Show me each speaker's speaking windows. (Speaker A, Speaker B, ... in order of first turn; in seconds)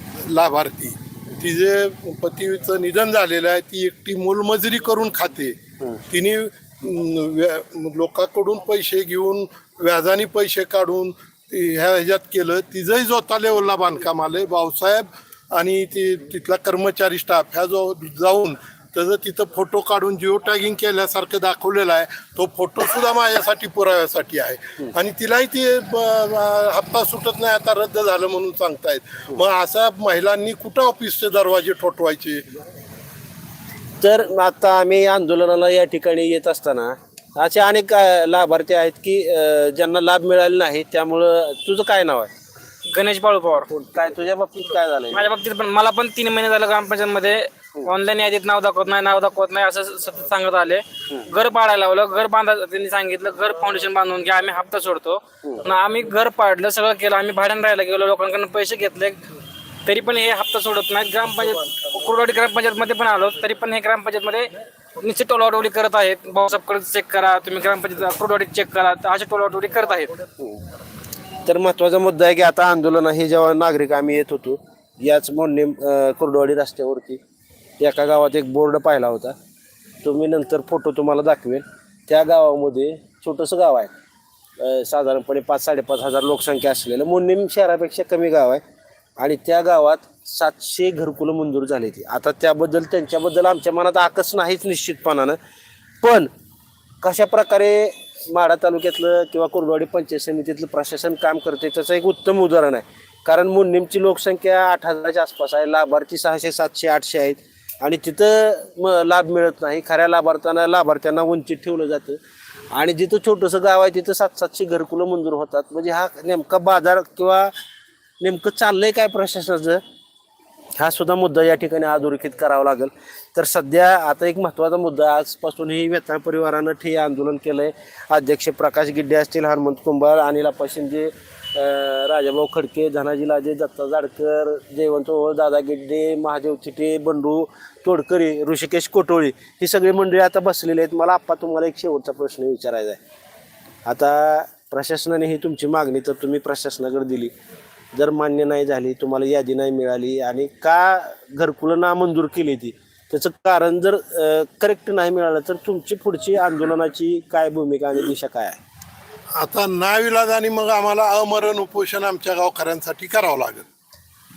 Speaker A: 0.2-5.6, 6.1-32.5, 159.4-163.7
Speaker B: 34.0-42.3, 43.7-45.3, 71.5-77.2, 77.8-79.4, 80.0-83.9, 84.6-88.6, 89.2-95.4, 96.0-96.3, 97.0-112.2, 112.7-117.5, 118.2-119.8, 120.8-143.0, 143.9-147.3, 147.9-158.6
Speaker C: 42.9-43.7, 45.1-59.2, 59.9-70.2